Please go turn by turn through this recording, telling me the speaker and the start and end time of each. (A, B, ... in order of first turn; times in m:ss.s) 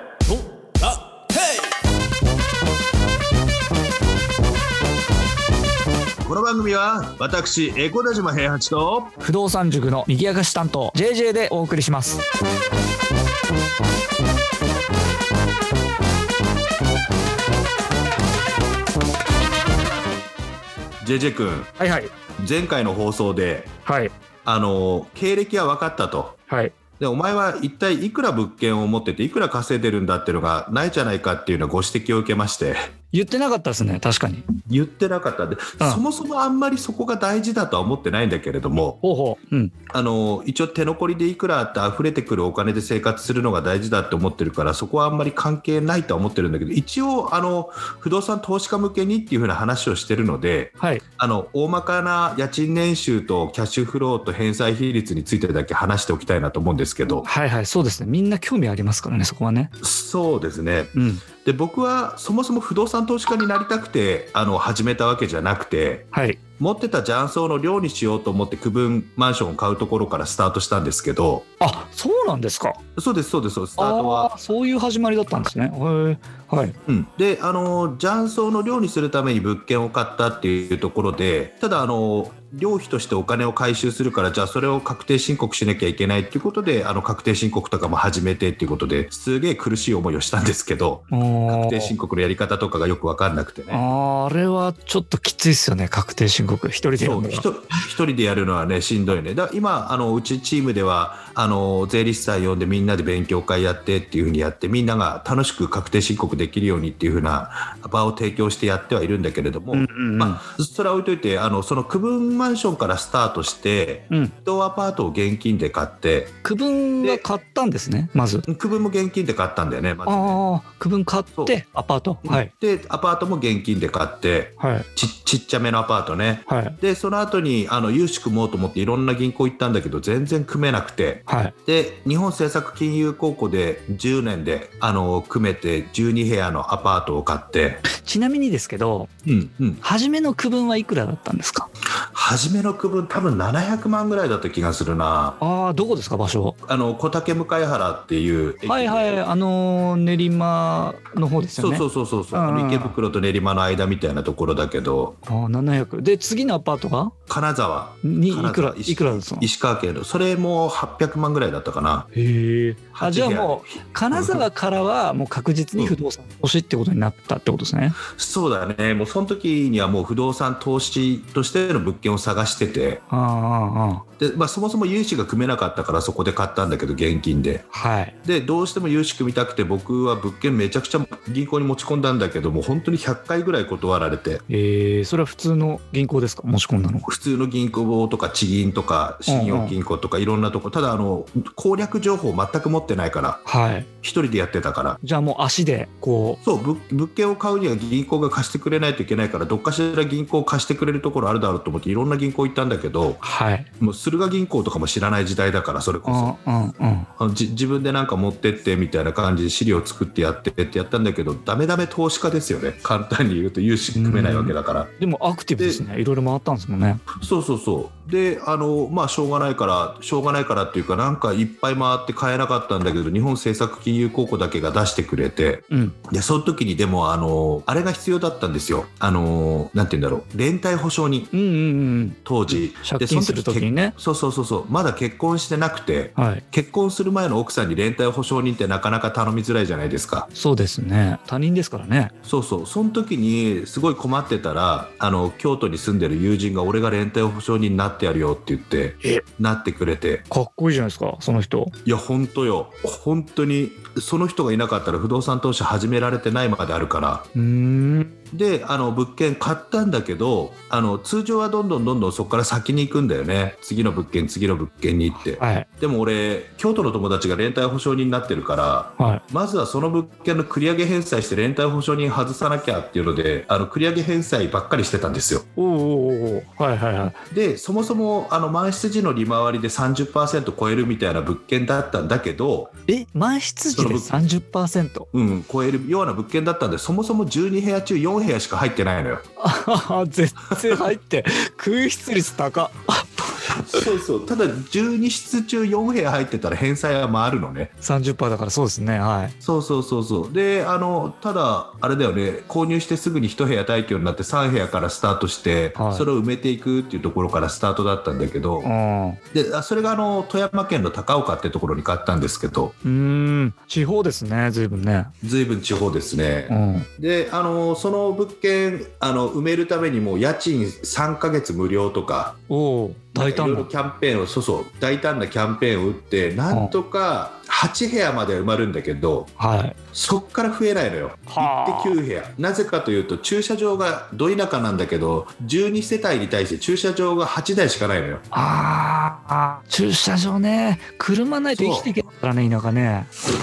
0:06.2-0:09.2 A
0:09.2-0:12.2 B
0:21.0-0:21.7 A
0:21.8-0:22.1 B
0:22.4-0:23.7 A
0:23.8-0:24.1 B
0:24.4-0:26.4 A
0:26.5-0:26.7 B
0:27.0-0:32.8 A
0:33.1-0:34.4 B
0:34.6-0:39.0 A
0:39.0-0:39.7 B
0:39.9-0:57.3 A
0:57.2-0:59.7 B
0:59.8-1:06.0 A
1:00.9-1:01.2 B
1:06.1-1:06.4 B
1:06.6-1:11.4 A
1:11.6-1:12.8 B
1:13.0-1:14.3 A
1:13.8-1:16.8 B
1:16.9-1:33.8 A
1:31.1-1:31.9 B
1:33.7-1:37.5 B
1:37.0-1:56.3 A
1:49.7-1:50.4 B
1:56.4-1:58.4 B
1:58.5-2:00.4 A
2:00.0-2:02.5 B
2:02.2-2:17.8 A
2:04.6-2:04.9 B
2:06.5-2:06.8 B
2:11.3-2:11.5 B
2:17.9-2:19.1 B
2:19.2-2:19.8 A
2:19.8-2:21.7 B
2:22.1-2:25.4 A
2:25.4-2:26.6 B
2:26.6-2:29.1 A
2:28.6-2:33.0 B
2:31.6-2:35.2 A
2:35.2-2:37.1 B
2:37.3-2:42.1 A
2:38.0-2:39.5 B
2:42.1-2:48.0 B
2:42.9-2:44.4 A
2:48.0-2:53.0 A
2:53.1-2:54.0 B
2:54.2-2:57.6 A
2:57.7-2:58.1 B
2:58.2-3:04.4 A
3:04.5-3:07.1 B
3:07.0-3:13.4 A
3:09.3-3:09.7 B
3:13.4-3:13.9 B
3:14.0-3:15.0 A
3:15.0-3:16.4 B
3:16.4-3:23.2 A
3:23.2-3:23.7 B
3:23.8-3:26.3 A
3:26.0-3:27.1 B
3:27.2-3:34.9 A
3:33.9-3:37.0 B
3:35.6-3:35.8 A
3:37.2-3:51.3 A
3:45.7-3:46.0 B
3:51.3-3:53.9 B
3:52.2-4:00.3 A
3:56.2-3:56.4 B
4:00.3-4:02.1 B
4:02.2-4:10.2 A
4:10.3-4:11.7 B
4:11.8-4:17.3 A
4:17.3-4:18.1 B
4:18.3-4:35.5 A
4:25.2-4:25.7 B
4:35.6-4:37.2 B
4:37.3-4:42.7 A
4:42.9-4:45.1 B
4:43.7-4:44.2 A
4:45.1-4:49.2 A
4:49.4-4:53.8 B
4:53.7-4:57.7 A
4:57.8-4:59.3 B
4:59.4-5:08.7 A
5:05.7-5:06.1 B
5:08.6-5:09.2 B
5:09.3-5:12.7 A
5:12.8-5:15.1 B
5:15.2-5:22.4 A
5:16.5-5:16.9 B
5:22.5-5:23.7 B
5:23.2-5:29.3 A
5:26.5-5:26.8 B
5:29.4-5:29.8 B
5:29.9-5:38.2 A
5:31.3-5:32.0 B
5:38.3-5:43.1 B
5:41.5-5:41.9 A